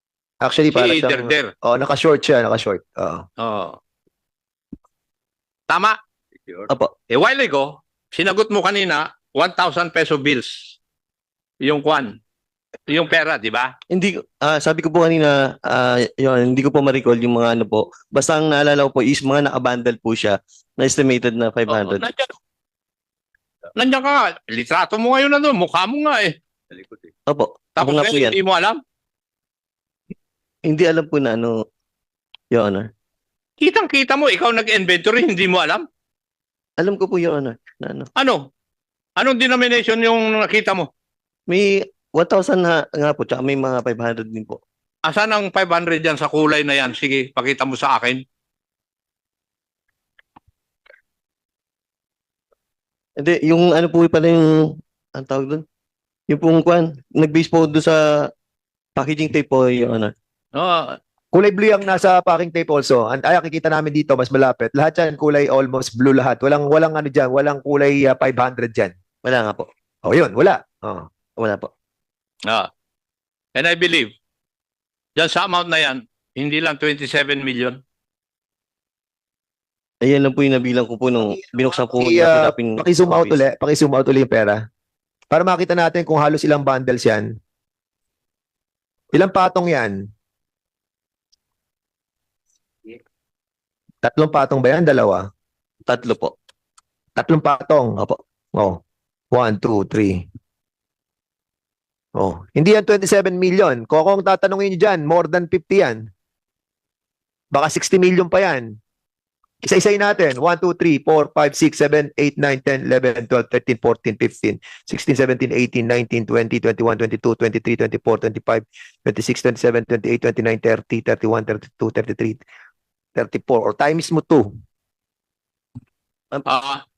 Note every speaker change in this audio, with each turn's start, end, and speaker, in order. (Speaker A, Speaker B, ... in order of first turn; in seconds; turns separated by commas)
Speaker A: 0.4-3.2, Speaker B: 0.7-1.5, Speaker B: 3.4-3.8, Speaker B: 5.7-6.0, Speaker B: 7.1-10.8, Speaker B: 11.6-12.2, Speaker B: 12.9-13.7, Speaker C: 13.9-22.1, Speaker B: 21.7-22.3, Speaker B: 23.8-26.4, Speaker C: 27.3-28.4, Speaker B: 27.8-28.8, Speaker C: 30.7-31.6, Speaker C: 32.5-32.9, Speaker B: 33.6-35.9, Speaker C: 36.8-38.1, Speaker B: 38.2-38.4, Speaker B: 39.2-40.9, Speaker C: 41.5-44.6, Speaker B: 45.0-48.2, Speaker C: 53.2-55.6, Speaker C: 56.3-58.3, Speaker C: 59.0-60.1, Speaker B: 60.5-61.0, Speaker A: 61.3-68.9, Speaker C: 69.2-69.7, Speaker A: 70.0-71.1, Speaker C: 71.4-71.7, Speaker B: 73.6-74.1, Speaker B: 75.2-77.8, Speaker C: 80.0-83.4, Speaker A: 81.2-84.6, Speaker A: 85.3-87.3, Speaker A: 89.1-90.0, Speaker A: 94.0-95.3, Speaker C: 95.8-96.3, Speaker A: 97.2-98.0, Speaker A: 98.5-98.8, Speaker A: 99.3-100.2, Speaker A: 102.2-106.0, Speaker A: 107.5-108.8, Speaker A: 109.6-122.4, Speaker A: 123.2-124.5, Speaker B: 126.5-126.8